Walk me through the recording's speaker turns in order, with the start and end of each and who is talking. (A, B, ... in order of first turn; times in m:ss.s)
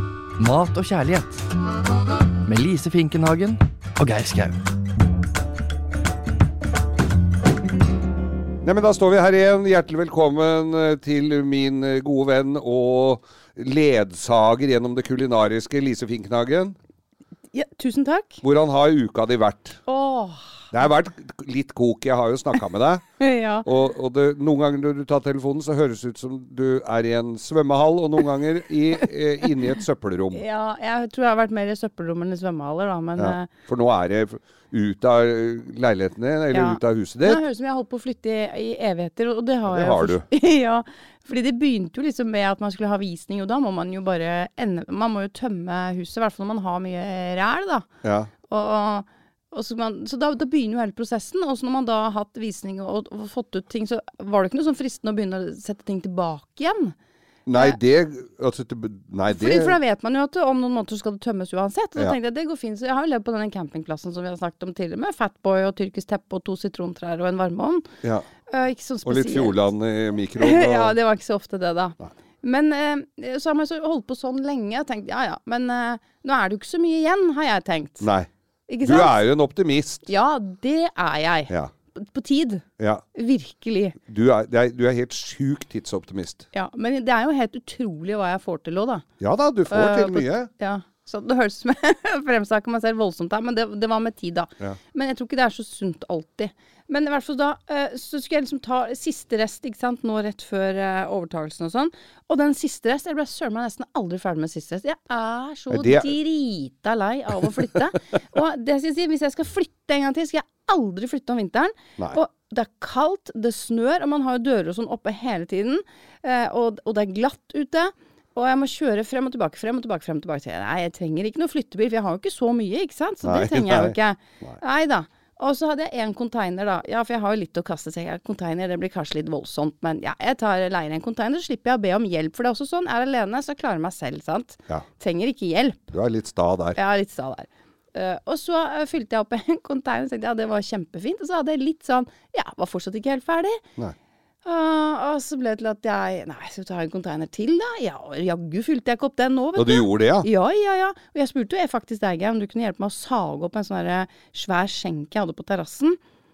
0:00.4-0:01.4 A
0:02.4-0:04.6 A
0:08.6-0:16.8 B
0:17.5-0:18.4 C
0:18.4-0:19.8 B
0:19.8-0:20.6 C
0:20.7-0:23.0 B
0:23.2-0:23.7 C
0:23.6-0:30.4 B
0:30.3-0:33.5 C
0:33.2-0:37.4 B
0:36.5-0:47.9 C
0:39.7-0:40.2 B
0:48.0-0:48.3 B
0:48.5-0:56.9 C
0:57.4-0:59.8 B
0:59.3-1:07.9 C
1:08.0-1:08.3 B
1:08.5-1:09.6 C
1:09.0-1:11.0 B
1:10.4-1:18.1 C
1:18.0-1:18.3 B
1:18.7-1:19.2 C
1:18.8-1:20.1 B
1:20.0-1:24.0 C
1:22.8-1:23.0 B
1:24.0-1:26.4 B
1:26.5-1:29.0 C
1:29.2-1:30.5 B
1:29.7-2:15.9 C
1:45.7-1:46.1 B
2:03.2-2:04.6 B
2:15.9-2:16.8 B
2:16.7-2:23.6 C
2:24.4-2:36.0 C
2:29.6-2:30.3 B